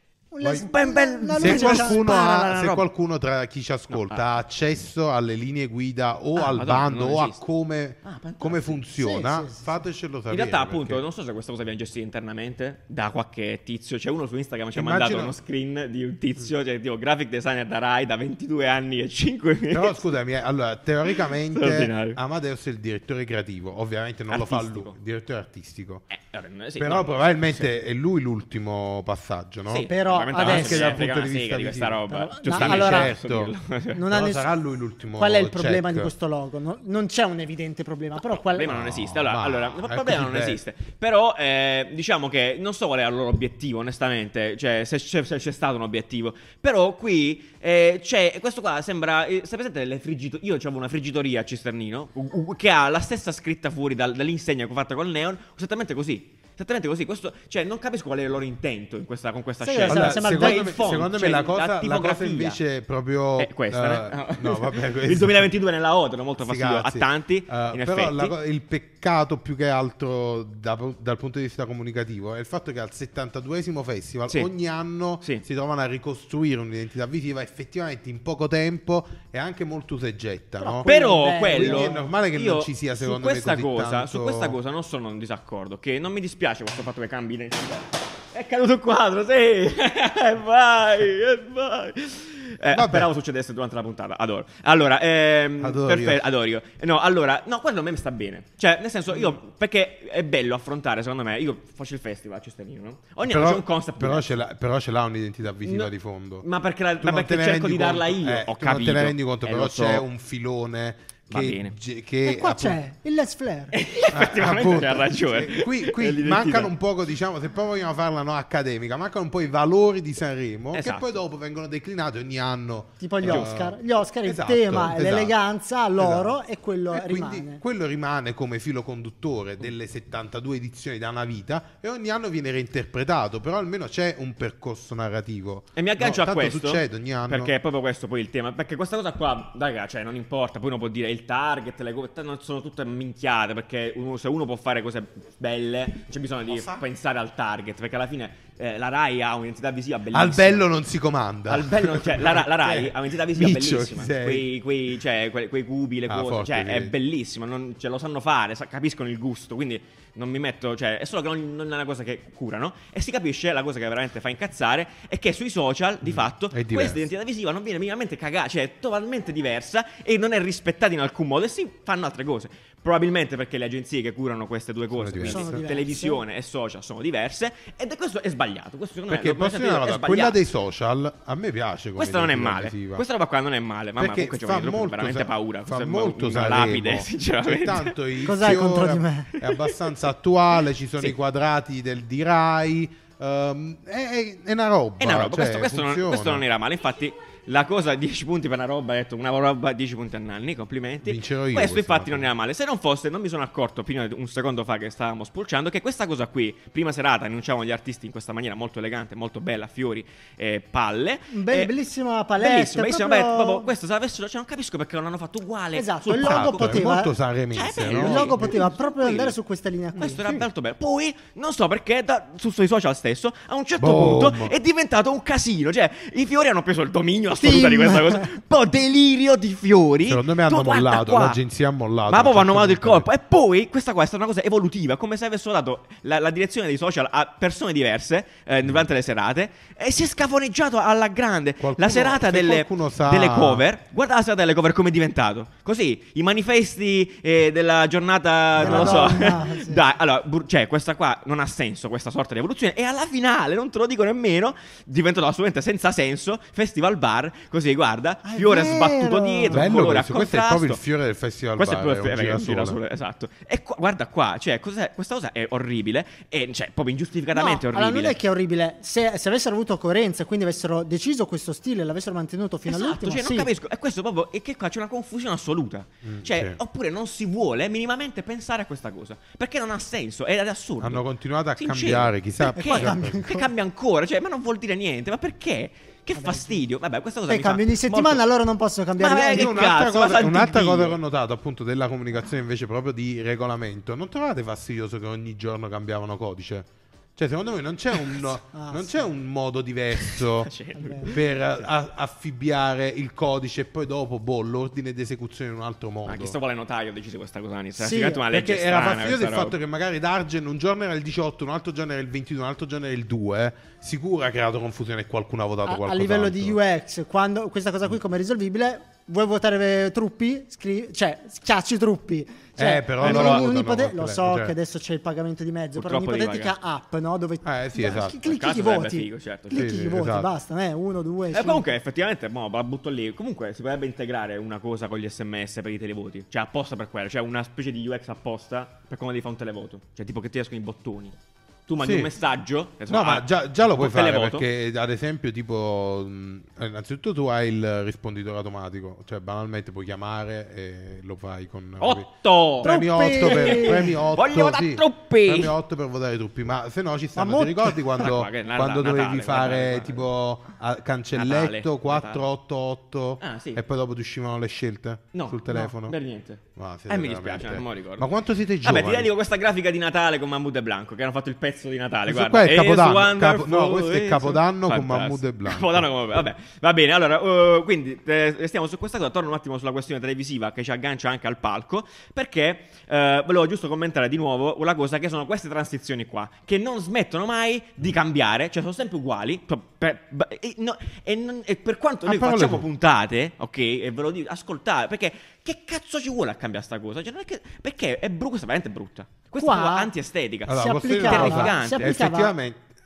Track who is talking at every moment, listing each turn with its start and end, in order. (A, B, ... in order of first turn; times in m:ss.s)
0:00.3-0:02.6 A
0:00.4-0:00.7 B
0:00.6-0:02.8 C
0:01.4-0:11.0 B
0:03.9-0:04.2 C
0:06.3-0:07.4 C
0:08.0-0:08.8 C
0:09.0-0:09.7 A
0:10.3-0:20.0 C
0:14.7-0:15.4 B
0:19.7-0:26.0 B
0:21.1-0:22.2 C
0:24.3-0:25.0 C
0:26.1-0:27.6 C
0:26.8-0:33.5 B
0:29.7-0:34.0 C
0:29.9-0:31.0 A
0:32.1-0:33.1 A
0:33.9-0:34.5 A
0:34.1-0:36.1 B
0:35.2-0:38.7 A
0:38.3-1:02.6 C
0:38.6-0:40.6 B
0:59.6-1:00.8 A
0:59.8-1:05.5 B
1:03.4-1:08.3 C
1:06.4-1:20.9 B
1:20.6-1:22.0 A
1:20.8-1:44.4 C
1:21.5-1:24.6 B
1:32.7-1:33.1 B
1:35.6-1:36.2 B
1:43.2-1:46.4 B
1:45.6-1:50.0 C
1:47.0-1:52.8 B
1:51.3-1:51.7 C
1:52.2-1:53.7 A
1:53.7-1:56.7 C
1:54.1-2:05.3 B
2:00.7-2:01.1 C
2:03.0-2:07.6 A
2:03.2-2:03.5 C
2:06.0-2:06.4 B
2:06.9-2:17.5 B
2:15.7-2:30.6 C
2:26.5-2:26.8 B
2:30.1-2:34.5 B
2:31.5-3:00.4 C
2:36.1-2:36.9 B
2:46.0-2:47.0 B
2:54.9-2:55.6 B
2:55.2-2:56.2 A
2:59.1-3:03.0 B
3:02.0-3:08.0 C
3:04.0-3:16.4 B
3:08.2-3:09.4 A
3:15.0-3:31.7 C
3:21.0-3:22.3 B
3:31.3-3:33.7 A
3:32.4-3:36.9 C
3:35.8-3:37.1 A
3:36.1-3:38.6 B
3:37.5-3:39.3 C
3:37.8-3:40.2 A
3:40.0-3:51.4 C
3:43.8-3:44.5 B
3:47.4-3:48.3 A
3:50.0-3:53.0 B
3:52.1-4:20.8 C
4:01.6-4:03.6 B
4:08.5-4:09.3 B
4:08.6-4:09.8 A
4:18.2-4:19.6 A
4:19.5-4:22.8 B
4:21.6-4:28.2 C
4:27.3-4:33.5 A
4:32.7-4:41.0 C
4:36.0-4:36.6 B
4:40.8-4:43.2 B
4:41.6-4:48.2 C
4:42.6-4:43.5 A
4:46.2-4:46.6 A
4:47.3-4:49.6 A
4:49.0-4:51.0 C
4:49.3-5:00.5 B
4:58.5-4:59.0 A
5:00.0-5:01.6 C
5:00.8-5:01.1 A
5:01.0-5:06.4 B
5:06.0-5:09.6 C
5:07.8-5:08.2 A
5:08.3-5:16.6 B
5:15.6-5:31.6 A
5:22.6-5:24.5 B
5:23.0-5:23.4 C
5:25.7-5:26.5 C
5:27.4-5:28.3 B
5:28.2-5:29.8 C
5:29.5-5:30.3 B
5:31.3-5:41.1 C
5:41.7-5:44.4 C
5:41.8-5:42.1 B
5:42.9-5:52.1 B
5:51.8-5:55.5 C
5:52.6-6:06.0 B
5:52.6-5:54.0 A
5:57.2-5:57.8 A
5:58.0-6:00.1 C
6:01.1-6:02.2 C
6:03.2-6:03.6 C
6:05.1-6:08.1 C
6:06.5-6:09.1 B
6:08.6-6:42.0 C
6:12.0-6:15.9 B
6:32.0-6:32.6 B
6:39.4-6:39.9 A
6:40.5-6:42.6 B
6:40.5-6:42.4 A